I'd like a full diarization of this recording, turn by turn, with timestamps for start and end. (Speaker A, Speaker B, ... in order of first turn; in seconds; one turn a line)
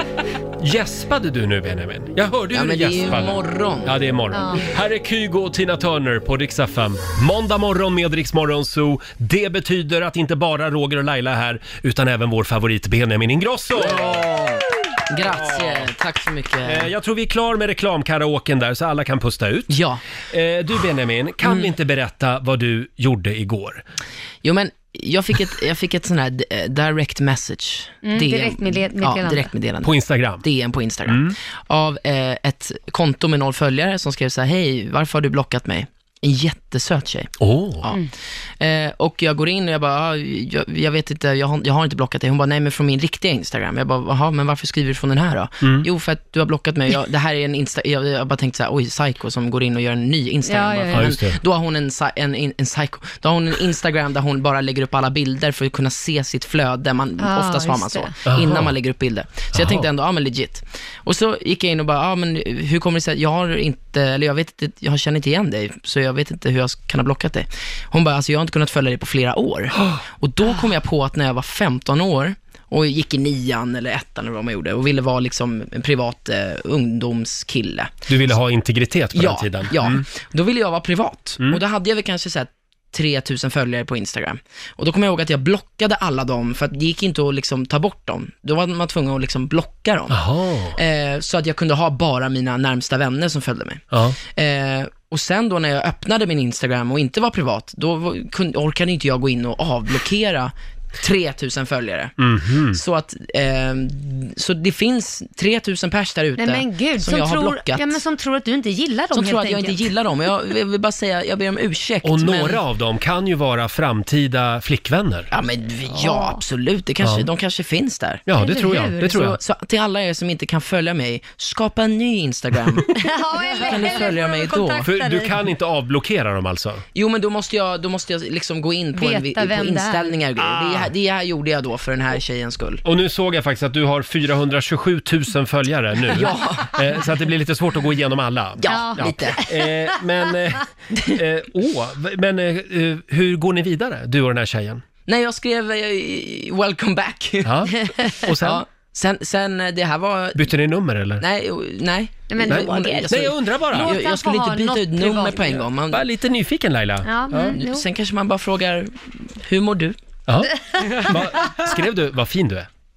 Speaker A: 0.6-14.2
Speaker B: 2.5-4.0
Speaker C: 4.3-4.7
Speaker B: 13.7-16.9
Speaker A: 15.3-15.9
Speaker A: 16.6-19.7
Speaker B: 19.7-20.0
Speaker A: 20.3-23.8
Speaker B: 24.4-38.0
Speaker C: 28.1-29.5
Speaker A: 29.8-30.4
Speaker A: 31.1-31.4
Speaker A: 37.4-37.9
Speaker B: 38.6-77.9
Speaker A: 45.6-45.9
Speaker C: 50.5-51.1
Speaker A: 50.9-51.4
Speaker C: 57.2-58.1
Speaker A: 58.3-58.8
Speaker A: 59.5-59.9
Speaker A: 78.1-80.0
Speaker B: 79.1-90.2
Speaker A: 90.1-90.8
Speaker B: 90.7-102.1
Speaker A: 93.9-94.2
Speaker A: 102.2-102.8
Speaker B: 102.7-108.0
Speaker C: 106.4-109.9
Speaker B: 109.1-112.6
Speaker A: 112.0-115.3
Speaker B: 115.3-124.9
Speaker C: 116.0-116.4
Speaker A: 117.0-117.3
Speaker A: 118.3-119.4
Speaker C: 118.4-119.0
Speaker C: 123.0-125.4
Speaker A: 124.8-126.8
Speaker B: 127.0-132.8
Speaker C: 129.0-130.1
Speaker A: 130.4-130.9
Speaker A: 132.8-144.8
Speaker B: 136.1-136.8
Speaker B: 138.6-139.5
Speaker C: 138.7-139.8
Speaker B: 145.1-147.8
Speaker A: 147.4-148.6
Speaker C: 147.8-148.1
Speaker B: 148.4-150.5
Speaker A: 150.3-151.2
Speaker B: 151.2-156.0
Speaker C: 152.3-155.6
Speaker A: 152.5-153.9
Speaker A: 155.9-157.6
Speaker C: 157.1-157.8
Speaker B: 157.4-160.0
Speaker A: 160.3-162.7